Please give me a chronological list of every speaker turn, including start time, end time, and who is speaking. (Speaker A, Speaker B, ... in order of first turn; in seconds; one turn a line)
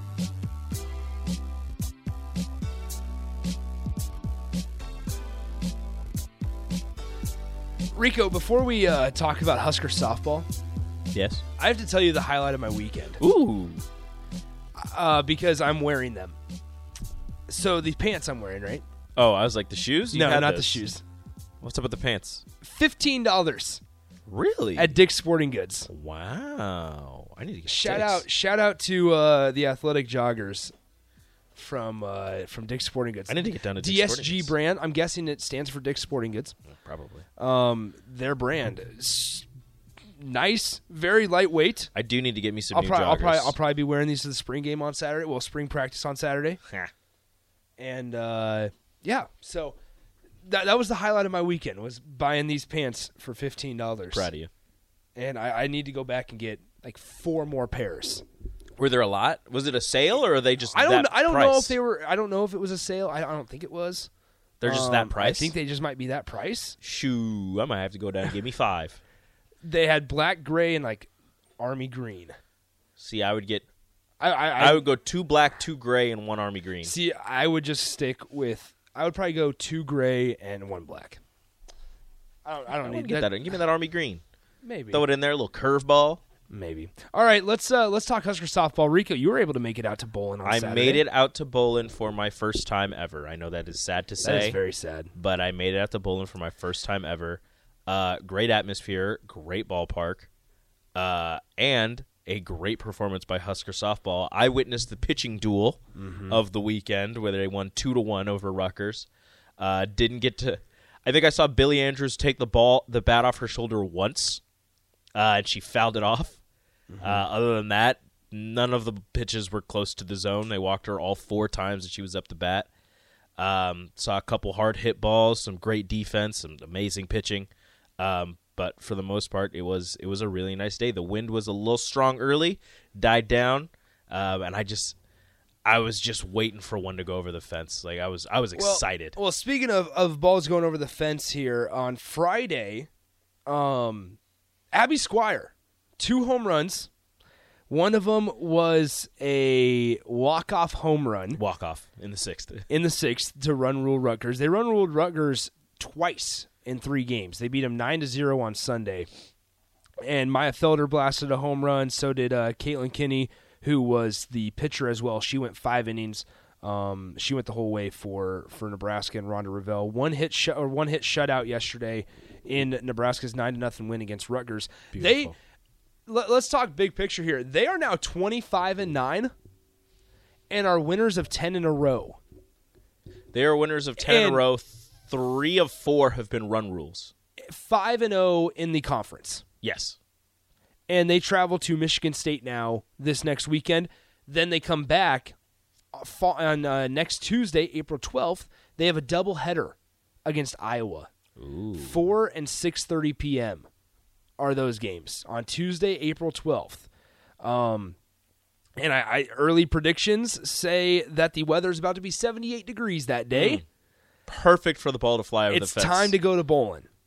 Speaker A: 7.9-10.5
Speaker B: 11.1-11.4
Speaker A: 11.6-13.2
Speaker B: 13.2-13.8
Speaker A: 14.8-16.4
Speaker A: 17.5-18.8
Speaker B: 19.2-20.9
Speaker A: 20.1-21.0
Speaker B: 21.6-22.4
Speaker A: 22.6-23.8
Speaker B: 24.3-24.9
Speaker A: 24.8-25.9
Speaker B: 25.9-28.3
Speaker A: 27.7-30.7
Speaker A: 31.6-36.5
Speaker B: 33.3-34.5
Speaker B: 36.8-37.2
Speaker A: 37.4-39.5
Speaker A: 40.2-41.9
Speaker B: 42.0-43.6
Speaker A: 42.7-46.6
Speaker A: 47.8-49.8
Speaker A: 50.5-54.3
Speaker B: 54.1-54.5
Speaker A: 55.2-58.2
Speaker B: 58.8-61.8
Speaker A: 60.7-64.1
Speaker B: 64.6-65.5
Speaker A: 64.6-66.8
Speaker B: 66.8-69.0
Speaker A: 69.6-72.3
Speaker B: 73.0-73.7
Speaker A: 74.2-74.9
Speaker B: 74.6-76.9
Speaker A: 76.8-81.2
Speaker A: 82.5-83.6
Speaker B: 82.8-84.2
Speaker A: 84.6-85.1
Speaker B: 84.9-86.2
Speaker A: 86.5-91.1
Speaker B: 90.4-94.6
Speaker A: 94.2-95.1
Speaker B: 95.2-100.3
Speaker B: 101.0-109.1
Speaker A: 106.0-106.4
Speaker B: 109.6-114.4
Speaker B: 115.2-116.4
Speaker A: 116.9-117.3
Speaker B: 117.0-122.7
Speaker B: 123.4-135.0
Speaker B: 135.7-139.2
Speaker A: 138.6-142.9
Speaker A: 143.5-144.2
Speaker A: 144.7-146.9
Speaker A: 147.7-151.4
Speaker B: 151.4-152.7
Speaker A: 152.7-159.1
Speaker A: 160.0-175.3
Speaker B: 174.9-175.3
Speaker A: 176.1-179.3
Speaker A: 180.5-182.2
Speaker B: 183.3-187.1
Speaker A: 184.0-184.4
Speaker A: 187.5-189.4
Speaker B: 189.6-190.0
Speaker A: 190.9-195.4
Speaker A: 195.9-201.1
Speaker B: 201.4-202.1
Speaker A: 201.8-203.7
Speaker A: 204.4-206.9
Speaker A: 207.4-208.0
Speaker A: 208.8-213.6
Speaker B: 213.3-213.6
Speaker B: 214.3-216.2
Speaker A: 215.5-216.9